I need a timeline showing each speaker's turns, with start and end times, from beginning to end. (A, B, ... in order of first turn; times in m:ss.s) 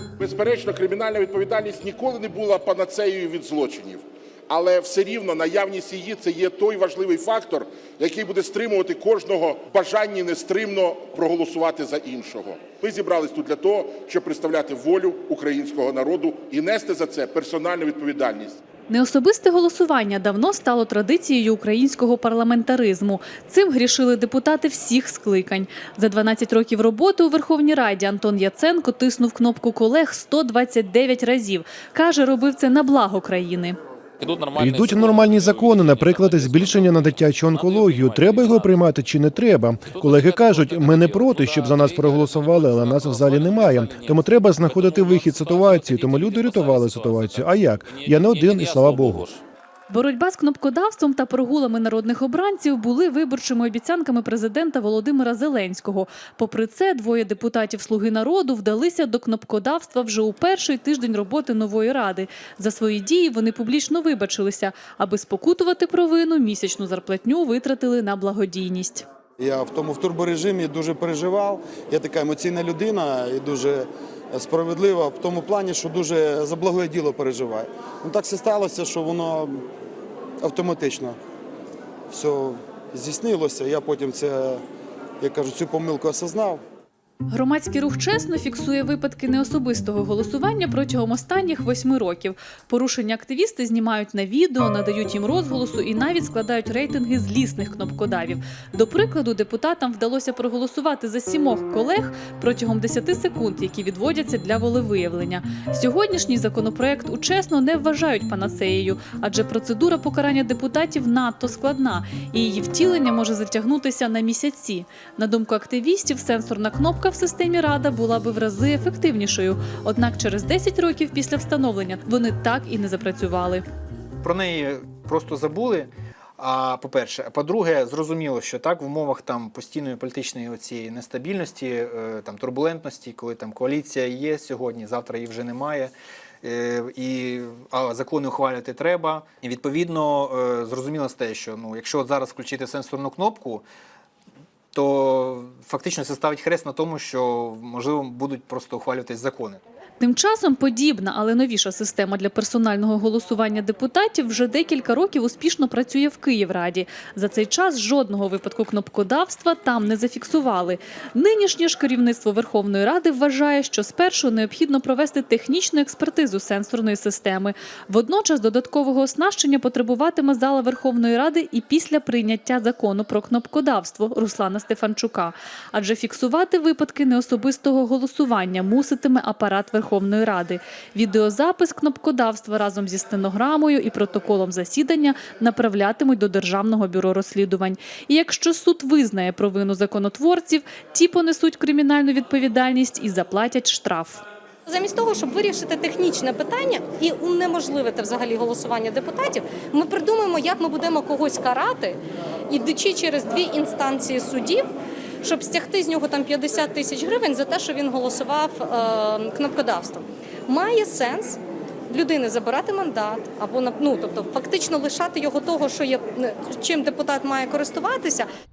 0:00.2-0:18.6 A
0:18.9-0:33.8 B
0:34.2-0:38.7 C
0:34.6-0:49.2 D
0:39.9-0:49.4 C
0:49.9-1:09.0 B
1:09.4-1:19.6 E
1:20.4-1:21.2 E
1:22.1-1:24.6 E
1:25.2-1:26.6 E
1:27.3-2:03.6 B
2:04.2-2:23.6 F
2:24.7-2:29.6 F
2:30.0-3:14.2 B
3:14.7-3:24.7 G
3:25.2-3:38.3 G